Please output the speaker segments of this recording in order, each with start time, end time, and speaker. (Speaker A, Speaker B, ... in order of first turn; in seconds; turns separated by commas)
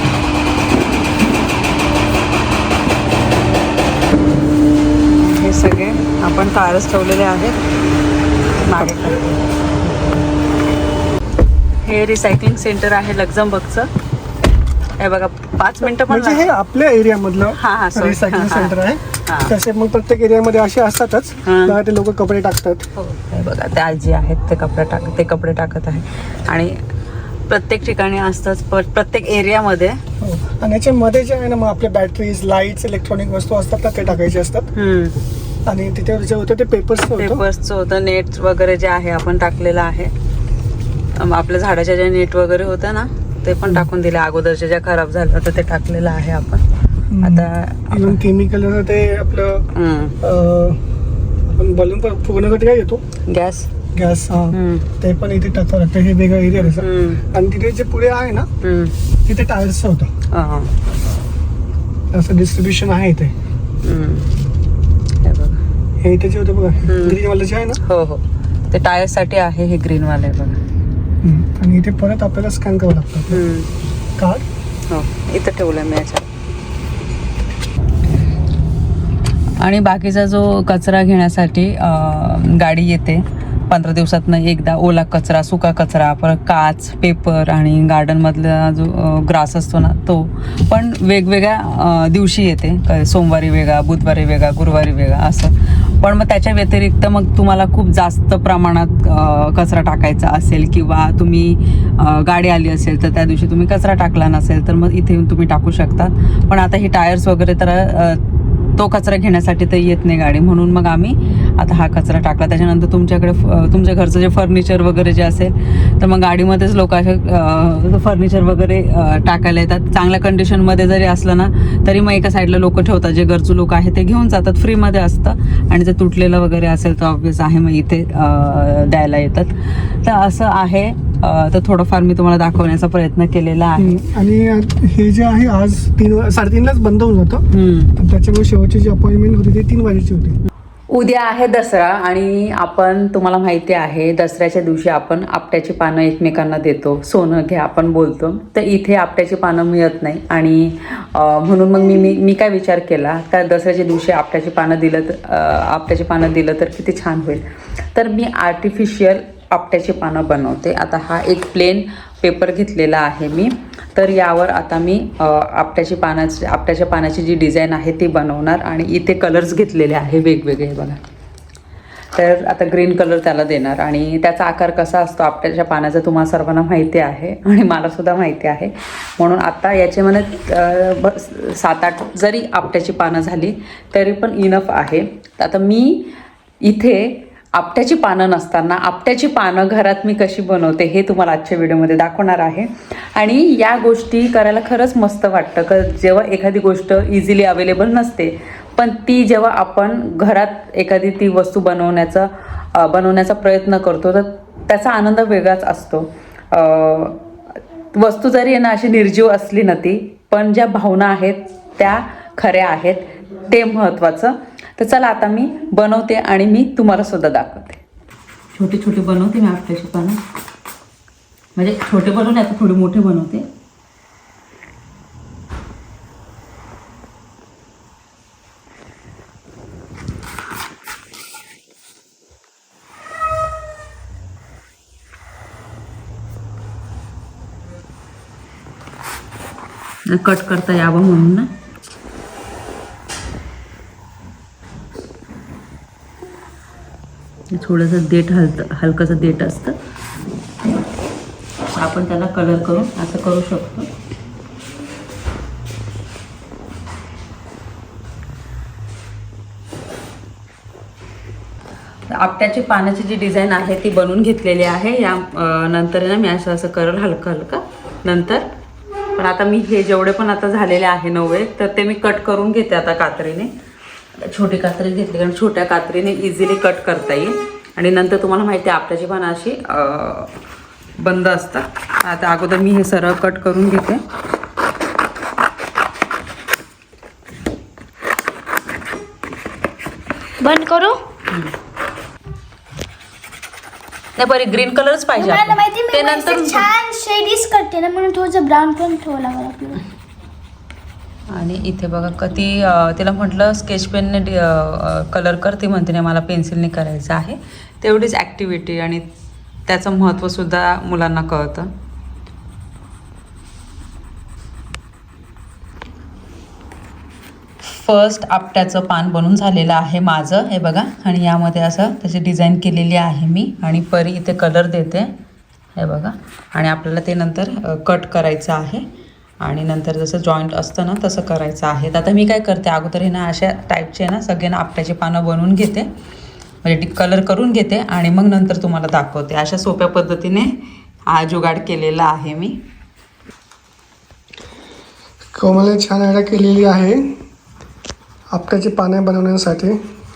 Speaker A: 5.1-7.6, Speaker A: 8.6-9.4, Speaker A: 11.8-13.9, Speaker A: 15.0-16.5, Speaker B: 15.9-22.9, Speaker A: 17.5-19.5, Speaker A: 21.4-21.8, Speaker A: 23.0-26.8, Speaker A: 27.5-30.0, Speaker B: 30.2-34.7, Speaker A: 34.8-35.2, Speaker B: 35.7-37.4, Speaker A: 37.2-40.1, Speaker A: 41.2-46.6, Speaker B: 47.1-49.6, Speaker A: 47.2-48.2, Speaker A: 49.7-50.2, Speaker B: 50.2-50.8, Speaker B: 51.5-53.0, Speaker A: 53.3-53.7, Speaker B: 53.9-58.5, Speaker A: 54.5-54.9, Speaker A: 56.6-57.2, Speaker A: 58.6-59.0, Speaker B: 59.3-60.1, Speaker A: 60.3-60.7, Speaker B: 62.1-63.3, Speaker A: 63.8-64.3, Speaker A: 65.2-65.6, Speaker B: 66.0-67.8, Speaker A: 66.9-67.2, Speaker A: 67.8-70.6, Speaker B: 71.2-73.4, Speaker A: 73.3-73.7, Speaker B: 74.2-74.5, Speaker A: 74.9-76.2, Speaker A: 79.6-108.2, Speaker A: 108.8-134.0, Speaker B: 133.8-137.4, Speaker A: 137.5-137.9, Speaker B: 137.9-140.4, Speaker A: 140.9-171.0, Speaker A: 172.2-186.1, Speaker A: 186.6-207.2, Speaker A: 207.9-217.8, Speaker A: 218.5-220.2, Speaker A: 221.6-223.5, Speaker A: 240.1-241.5, Speaker A: 247.5-249.8, Speaker A: 251.7-253.9, Speaker A: 262.1-268.4, Speaker A: 269.2-273.5, Speaker A: 274.2-280.3, Speaker A: 281.0-284.0, Speaker C: 290.4-291.0, Speaker A: 294.2-296.7, Speaker C: 295.1-299.8, Speaker A: 301.3-309.1, Speaker A: 309.7-311.7, Speaker A: 317.6-325.1, Speaker A: 325.8-328.9, Speaker A: 329.4-335.9, Speaker A: 336.6-340.6, Speaker A: 341.1-342.6, Speaker B: 345.3-347.1, Speaker B: 348.3-349.8